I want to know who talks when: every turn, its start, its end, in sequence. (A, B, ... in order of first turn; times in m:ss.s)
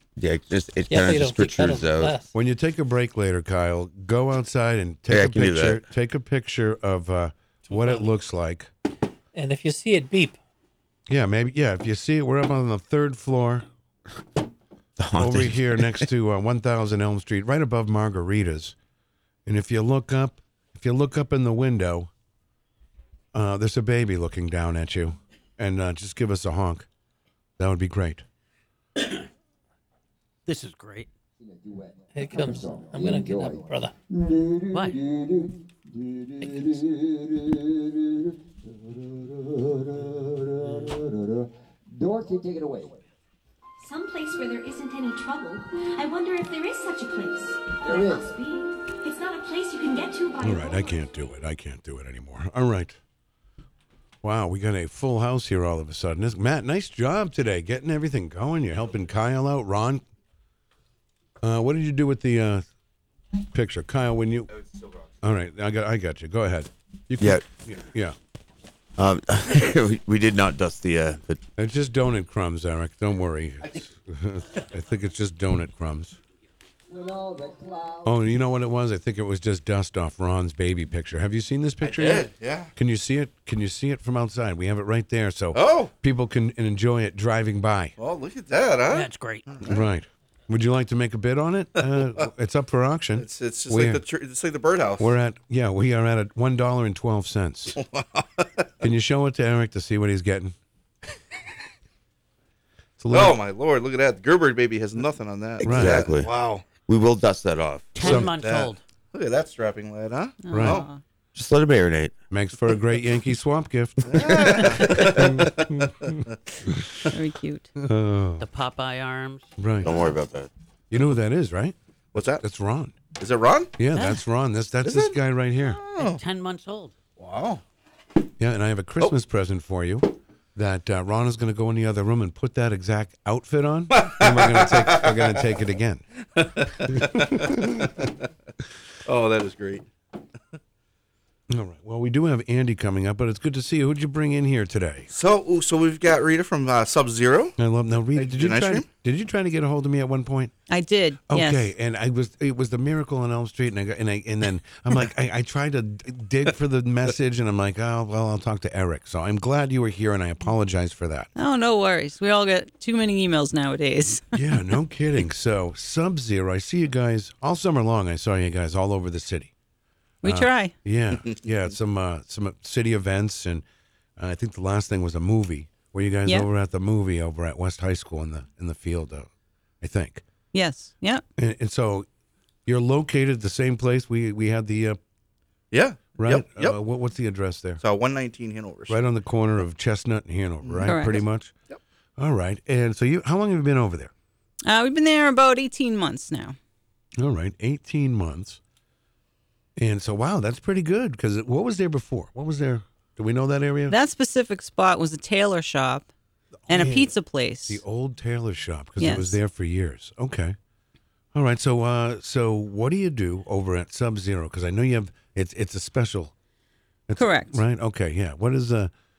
0:00.2-0:02.2 A
0:00.9-0:02.3 B
0:02.3-0:08.7 C
0:05.1-0:05.8 A
0:07.7-0:08.1 B
0:09.3-0:10.4 B
0:11.1-0:13.6 C
0:15.0-0:16.0 A
0:15.2-0:18.7 C
0:19.4-0:22.1 C
0:23.3-0:26.9 C
0:27.6-0:28.2 C
0:30.4-0:31.1 D
0:31.4-0:43.0 E
0:32.1-0:33.9 B
0:34.7-0:35.0 D
0:43.8-0:51.3 F
0:47.8-0:48.3 E
0:50.4-0:53.0 C
0:54.2-1:00.0 C
1:01.4-1:02.6 C
1:03.5-1:04.5 C
1:05.2-1:08.1 C
1:09.0-1:11.4 A
1:11.6-1:16.2 C
1:16.9-1:18.2 E
1:18.0-1:28.0 C
1:21.8-1:22.7 G
1:25.5-1:25.9 G
1:28.0-1:29.8 G
1:28.9-1:29.4 D
1:29.6-1:34.0 C
1:33.2-1:35.1 G
1:35.0-1:37.8 C
1:37.8-1:38.6 G
1:38.8-1:40.5 C
1:43.0-1:43.4 C
1:43.1-1:46.6 G
1:45.6-1:48.0 A
1:45.6-1:46.0 C
1:47.9-1:48.8 D
1:48.0-1:48.3 C
1:48.0-1:50.8 G
1:50.4-1:51.0 H
1:50.5-1:50.8 C
1:51.3-1:52.1 A
1:52.3-1:55.5 C
1:54.0-1:56.2 G
1:57.1-1:57.7 H
1:57.8-1:58.4 C
1:58.4-1:59.5 D
1:59.6-1:59.9 C
1:59.8-2:00.5 A
2:00.9-2:03.0 C
2:02.1-2:02.4 G
2:03.2-2:03.7 G
2:03.8-2:05.8 C
2:03.9-2:04.2 D
2:04.8-2:06.2 G
2:06.0-2:06.9 D
2:07.2-2:07.6 G
2:08.4-2:16.0 C
2:13.9-2:15.4 G
2:16.4-2:18.1 G
2:16.9-2:17.9 C
2:19.0-2:19.8 G
2:21.5-2:25.1 C
2:25.1-2:27.5 G
2:27.6-2:30.5 C
2:28.2-2:28.8 G
2:30.7-2:31.7 H
2:31.3-2:41.3 C
2:41.4-2:44.4 H
2:44.3-2:49.5 C
2:50.2-2:50.7 H
2:50.2-2:53.6 C
2:54.2-2:59.3 C
2:59.8-3:00.2 C
3:00.5-3:01.2 H
3:01.4-3:02.0 C
3:02.6-3:05.0 C
3:05.7-3:06.8 G
3:06.2-3:07.8 C
3:07.8-3:09.0 G
3:08.9-3:11.5 C
3:10.6-3:11.0 G
3:10.8-3:11.2 H
3:12.2-3:14.1 C
3:14.6-3:16.6 H
3:17.2-3:18.6 C
3:19.8-3:24.0 C
3:23.9-3:26.1 H
3:26.7-3:27.1 C
3:26.7-3:27.8 H
3:27.7-3:30.6 C
3:29.0-3:29.4 H
3:31.3-3:36.3 C
3:37.1-3:38.9 C
3:37.2-3:37.6 H